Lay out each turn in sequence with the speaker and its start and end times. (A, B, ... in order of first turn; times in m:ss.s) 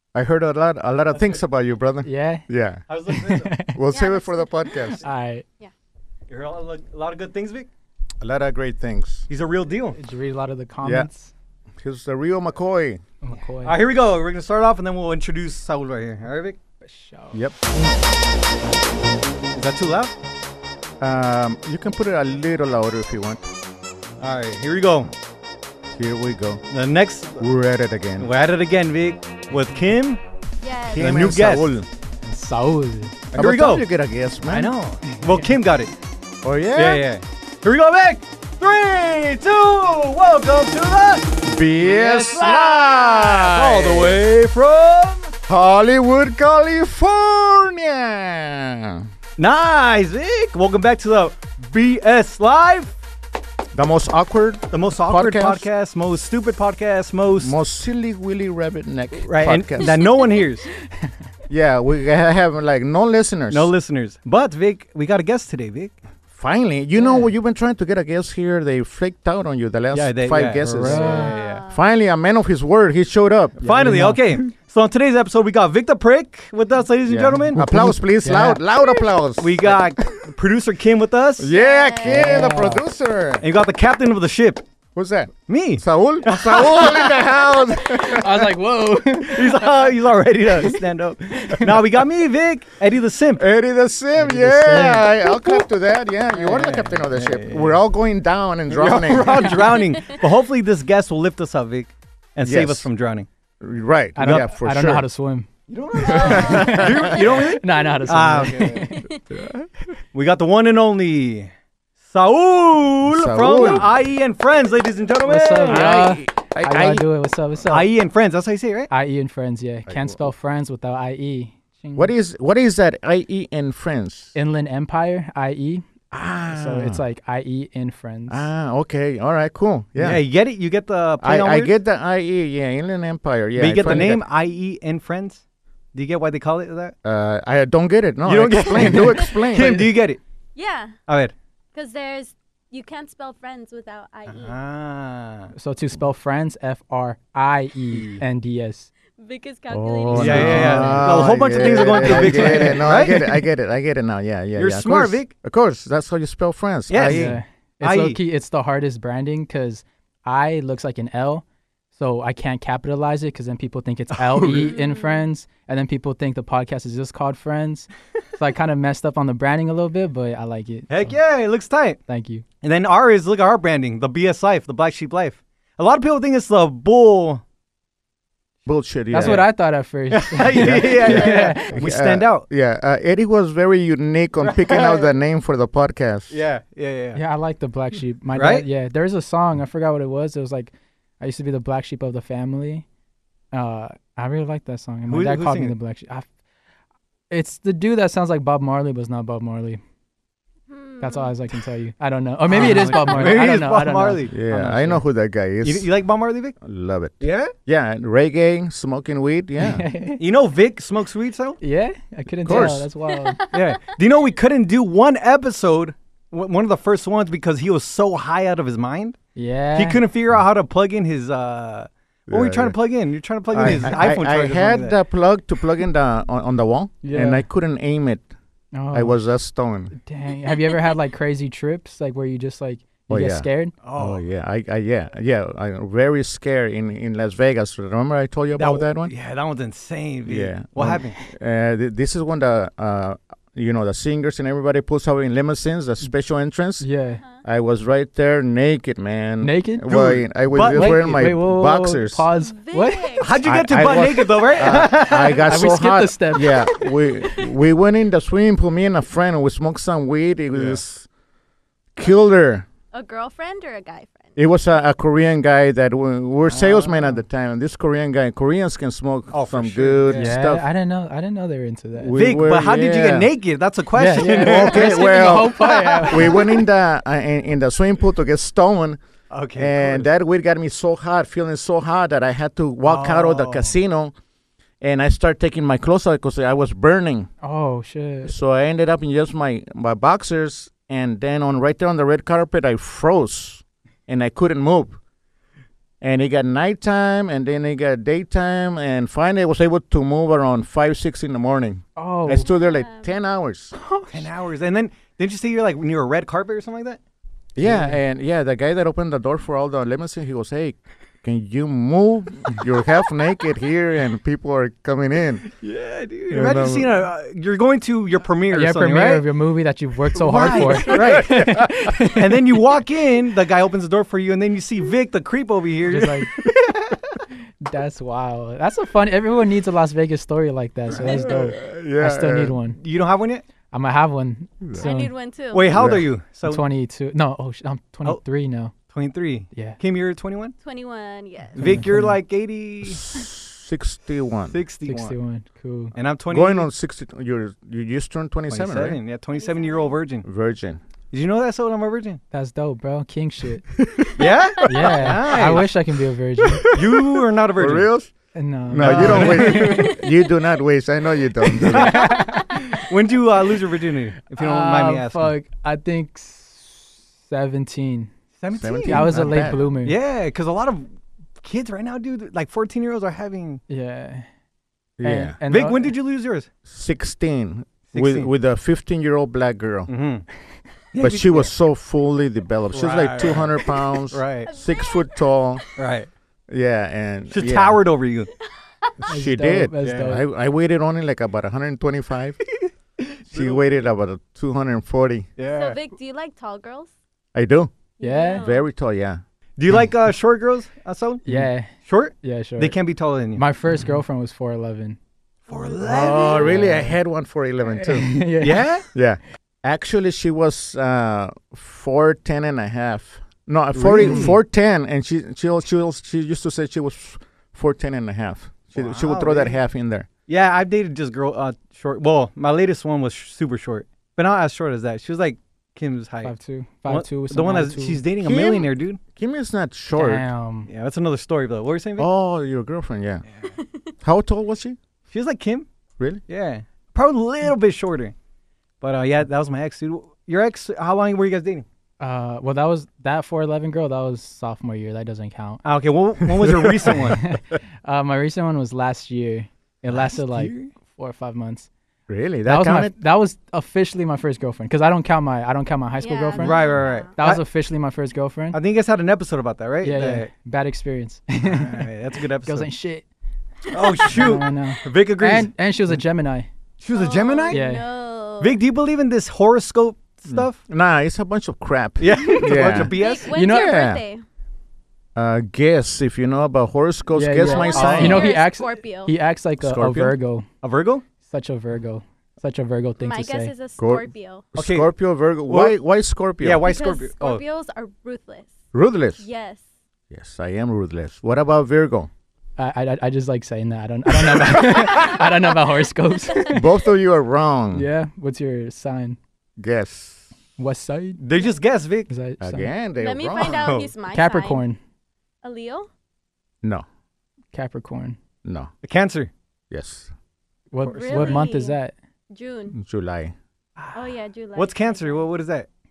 0:00.1-0:02.8 A
0:02.0-0:02.5 B
0:02.9-0:03.6 C
0:03.1-0:03.8 B
0:03.6-0:05.0 A
0:03.9-0:05.0 D
0:05.0-0:05.4 B
0:06.3-0:07.7 C
0:08.2-0:09.3 A
0:09.3-0:10.0 C
0:10.0-0:11.3 B
0:10.8-0:11.1 A
0:11.8-0:13.0 A
0:13.2-0:13.8 B
0:13.3-0:16.6 C
0:16.8-0:17.5 B
0:19.5-0:20.1 C
0:21.0-0:23.4 A
0:24.2-0:25.1 C
0:25.9-0:26.6 A
0:26.7-0:27.4 C
0:27.4-0:28.3 A
0:28.2-0:30.2 C
0:30.6-0:31.1 D
0:30.9-0:31.9 A
0:31.0-0:31.8 C
0:32.2-0:33.3 B
0:33.3-0:34.7 A
0:33.3-0:33.9 C
0:34.5-0:35.9 C
0:36.4-0:37.1 A
0:36.7-0:45.4 C
0:41.4-0:43.8 A
0:43.2-0:44.2 B
0:45.5-0:49.1 A
0:49.4-0:53.0 C
0:53.7-0:55.7 A
0:54.7-0:57.6 C
0:57.4-1:00.0 A
0:59.1-1:00.7 C
0:59.8-1:00.5 D
1:01.5-1:03.7 A
1:03.5-1:06.0 C
1:06.3-1:13.6 A
1:07.0-1:07.3 B
1:09.9-1:11.6 C
1:10.8-1:11.4 B
1:10.9-1:11.8 D
1:13.6-1:14.2 B
1:13.6-1:17.6 C
1:17.1-1:20.2 A
1:17.6-1:18.6 B
1:19.4-1:21.5 C
1:21.4-1:23.4 A
1:21.5-1:22.5 D
1:22.1-1:22.8 B
1:23.4-1:24.6 C
1:25.0-1:28.5 A
1:25.5-1:27.1 C
1:27.8-1:29.9 B
1:29.3-1:33.4 C
1:33.4-1:39.6 A
1:34.2-1:35.1 C
1:34.3-1:35.1 B
1:36.3-1:37.8 C
1:38.7-1:43.3 C
1:39.4-1:39.7 B
1:39.9-1:40.2 D
1:42.4-1:42.9 A
1:43.6-1:45.1 A
1:44.2-1:45.5 B
1:45.7-1:48.9 C
1:46.0-1:49.1 B
1:46.1-1:46.8 D
1:46.1-1:47.2 A
1:48.8-1:49.2 D
1:49.3-1:49.9 A
1:50.1-1:56.0 C
1:53.1-1:53.9 A
1:55.2-1:57.9 B
1:55.7-1:57.0 A
1:57.7-1:58.9 C
1:58.9-2:02.1 B
1:59.9-2:00.3 A
2:02.0-2:04.4 A
2:04.4-2:05.9 B
2:06.1-2:07.0 A
2:06.5-2:08.5 B
2:08.3-2:10.2 A
2:10.0-2:11.8 C
2:11.2-2:14.2 A
2:13.6-2:15.4 C
2:13.8-2:14.1 B
2:15.9-2:16.9 C
2:17.0-2:19.9 A
2:18.2-2:20.2 C
2:18.8-2:19.8 B
2:20.6-2:21.0 D
2:21.1-2:21.3 C
2:21.7-2:24.6 D
2:24.3-2:25.5 C
2:25.6-2:28.9 B
2:27.9-2:28.2 C
2:29.2-2:30.8 D
2:29.7-2:37.4 A
2:30.1-2:33.2 B
2:30.2-2:33.4 C
2:34.6-2:35.3 C
2:36.9-2:38.2 C
2:37.0-2:51.2 B
2:44.1-2:44.8 A
2:44.7-2:45.3 D
2:50.9-2:52.0 C
2:52.1-2:52.4 B
2:52.6-2:57.4 C
2:58.7-2:59.5 A
2:59.1-3:01.8 B
2:59.2-2:59.5 C
3:00.1-3:02.5 C
3:00.6-3:06.4 A
3:04.4-3:05.2 C
3:06.3-3:07.2 C
3:07.2-3:12.9 B
3:08.3-3:08.7 C
3:13.5-3:16.3 B
3:15.1-3:15.7 C
3:17.3-3:19.8 B
3:20.7-3:21.4 D
3:21.0-3:24.2 B
3:22.5-3:25.0 C
3:22.6-3:22.9 A
3:24.3-3:25.9 A
3:25.6-3:26.6 C
3:26.6-3:29.8 A
3:27.2-3:27.5 C
3:29.6-3:30.2 B
3:30.2-3:31.6 C
3:31.6-3:33.4 B
3:32.4-3:32.9 A
3:32.5-3:32.7 C
3:33.1-3:33.6 D
3:33.5-3:39.2 C
3:39.4-3:40.0 B
3:39.7-3:45.0 C
3:42.3-3:42.8 A
3:43.5-3:48.3 A
3:47.0-3:47.4 B
3:48.7-3:49.2 B
3:48.9-3:49.9 A
3:49.9-3:53.8 B
3:50.5-3:51.0 D
3:53.1-3:59.1 A
3:53.8-3:54.2 C
3:58.6-4:01.2 C
4:00.3-4:06.9 A
4:06.8-4:07.2 B
4:07.1-4:07.4 D
4:07.4-4:12.3 A
4:09.4-4:13.3 B
4:09.9-4:11.0 C
4:12.4-4:13.4 D
4:13.2-4:15.4 C
4:13.4-4:21.1 A
4:15.4-4:16.6 B
4:16.7-4:17.5 D
4:20.5-4:20.8 C
4:22.0-4:22.7 A
4:22.9-4:24.4 D
4:24.4-4:30.7 A
4:26.5-4:27.2 B
4:29.3-4:30.3 C
4:30.1-4:32.2 B
4:32.0-4:33.3 A
4:32.2-4:36.5 C
4:33.9-4:36.6 B
4:34.2-4:39.0 A
4:39.3-4:40.1 C
4:39.6-4:44.1 A
4:42.8-4:43.8 C
4:44.8-4:47.3 A
4:47.4-4:48.4 B
4:48.3-4:55.0 A
4:56.0-5:03.8 A
5:02.0-5:02.5 B
5:02.4-5:03.1 D
5:03.8-5:04.3 B
5:04.1-5:07.0 C
5:07.6-5:15.4 A
5:07.6-5:08.0 B
5:15.4-5:19.2 C
5:16.3-5:17.0 A
5:18.5-5:22.4 B
5:20.2-5:21.4 C
5:20.4-5:21.7 A
5:22.1-5:26.3 C
5:25.8-5:26.5 B
5:27.6-5:32.8 B
5:30.9-5:31.3 C
5:31.0-5:32.6 A
5:32.8-5:33.4 C
5:33.7-5:35.1 B
5:34.7-5:35.7 D
5:35.5-5:36.6 C
5:35.7-5:36.1 A
5:36.4-5:38.7 B
5:38.9-5:40.5 C
5:40.6-5:41.8 D
5:41.6-5:43.0 C
5:41.6-5:42.2 B
5:42.8-5:44.6 A
5:44.5-5:45.2 C
5:44.9-5:46.0 B
5:46.0-5:46.7 C
5:46.3-5:49.0 A
5:48.5-5:50.3 C
5:49.3-5:50.0 D
5:50.2-5:50.8 A
5:51.1-5:52.2 C
5:52.3-5:53.6 B
5:53.8-5:54.1 A
5:54.2-5:55.7 C
5:54.6-5:56.8 B
5:56.4-5:57.0 A
5:56.7-5:57.9 C
5:57.6-5:58.1 A
5:58.3-6:00.0 B
5:58.7-6:02.3 A
5:58.8-5:59.9 C
6:01.5-6:02.9 B
6:01.5-6:05.3 C
6:04.4-6:08.1 B
6:08.4-6:10.9 C
6:08.5-6:09.6 A
6:08.8-6:10.0 B
6:11.4-6:13.6 C
6:13.7-6:14.3 B
6:15.0-6:15.4 A
6:15.0-6:15.9 B
6:15.4-6:16.5 C
6:16.6-6:19.9 A
6:17.9-6:18.3 C
6:19.9-6:20.3 C
6:20.9-6:21.5 C
6:21.0-6:25.6 A
6:22.7-6:24.5 C
6:24.4-6:25.6 D
6:25.8-6:26.1 C
6:26.5-6:27.8 A
6:27.3-6:28.3 C
6:28.5-6:29.1 D
6:29.0-6:32.4 A
6:29.1-6:30.2 B
6:29.8-6:30.2 C
6:32.6-6:33.6 C
6:33.3-6:35.3 A
6:35.4-6:35.8 C
6:35.5-6:36.9 D
6:37.3-6:37.7 A
6:38.0-6:38.6 D
6:38.0-6:38.5 B
6:38.4-6:39.2 A
6:39.6-6:41.2 C
6:41.3-6:42.8 B
6:41.8-6:43.4 C
6:43.4-6:45.0 B
6:45.5-6:46.6 C
6:45.8-6:47.0 B
6:45.8-6:48.2 A
6:47.8-6:48.7 B
6:48.4-6:48.9 C
6:48.9-7:00.1 A
6:53.7-6:54.4 C
6:54.1-6:54.3 B
6:58.8-6:59.6 C
7:00.3-7:06.3 C
7:06.2-7:08.0 B
7:06.9-7:09.0 C
7:08.2-7:10.3 A
7:09.9-7:10.7 B
7:10.7-7:12.1 C
7:12.0-7:13.2 A
7:13.6-7:13.9 D
7:14.0-7:14.8 A
7:15.1-7:15.7 C
7:16.3-7:18.2 C
7:18.8-7:21.7 C
7:22.0-7:25.6 B
7:25.6-7:27.2 C
7:26.4-7:26.7 A
7:26.9-7:31.7 B
7:29.9-7:30.7 C
7:32.1-7:32.9 A
7:32.5-7:38.6 B
7:36.0-7:37.1 D
7:36.4-7:37.4 C
7:38.5-7:40.3 C
7:39.8-7:41.9 B
7:41.4-7:42.7 C
7:42.4-7:43.0 B
7:43.7-7:45.5 C
7:43.8-7:44.4 D
7:44.1-7:46.5 B
7:46.8-7:47.6 C
7:46.9-7:48.6 D
7:47.5-7:47.8 B
7:48.4-7:50.6 C
7:50.7-7:54.0 A
7:52.0-7:53.3 C
7:52.9-7:54.2 D
7:53.3-7:53.9 B
7:55.2-7:58.3 A
7:57.1-8:00.5 B
7:57.4-7:59.2 D
7:57.7-7:58.3 C
7:59.6-8:00.2 A
8:00.6-8:01.0 C
8:01.2-8:03.5 B
8:03.0-8:04.5 D
8:03.8-8:06.6 A
8:04.6-8:04.9 C
8:05.5-8:05.8 C
8:06.4-8:07.4 C
8:06.6-8:08.6 D
8:08.7-8:09.2 A
8:09.2-8:09.6 D
8:10.1-8:12.1 A
8:12.6-8:16.7 B
8:14.6-8:16.5 D
8:16.5-8:17.9 A
8:17.7-8:19.2 B
8:19.6-8:20.3 A
8:20.6-8:21.2 B
8:21.2-8:22.1 C
8:22.1-8:22.7 B
8:22.4-8:23.7 A
8:23.0-8:24.6 D
8:23.5-8:23.9 C
8:24.1-8:24.8 B
8:25.4-8:25.9 D
8:27.5-8:28.2 B
8:28.4-8:28.7 A
8:28.8-8:29.3 C
8:29.7-8:30.1 A
8:30.7-8:31.9 B
8:30.8-8:31.5 C
8:30.8-8:31.8 D
8:32.3-8:32.8 D
8:32.7-8:33.3 A
8:33.8-8:34.1 B
8:33.9-8:35.3 D
8:34.6-8:35.7 C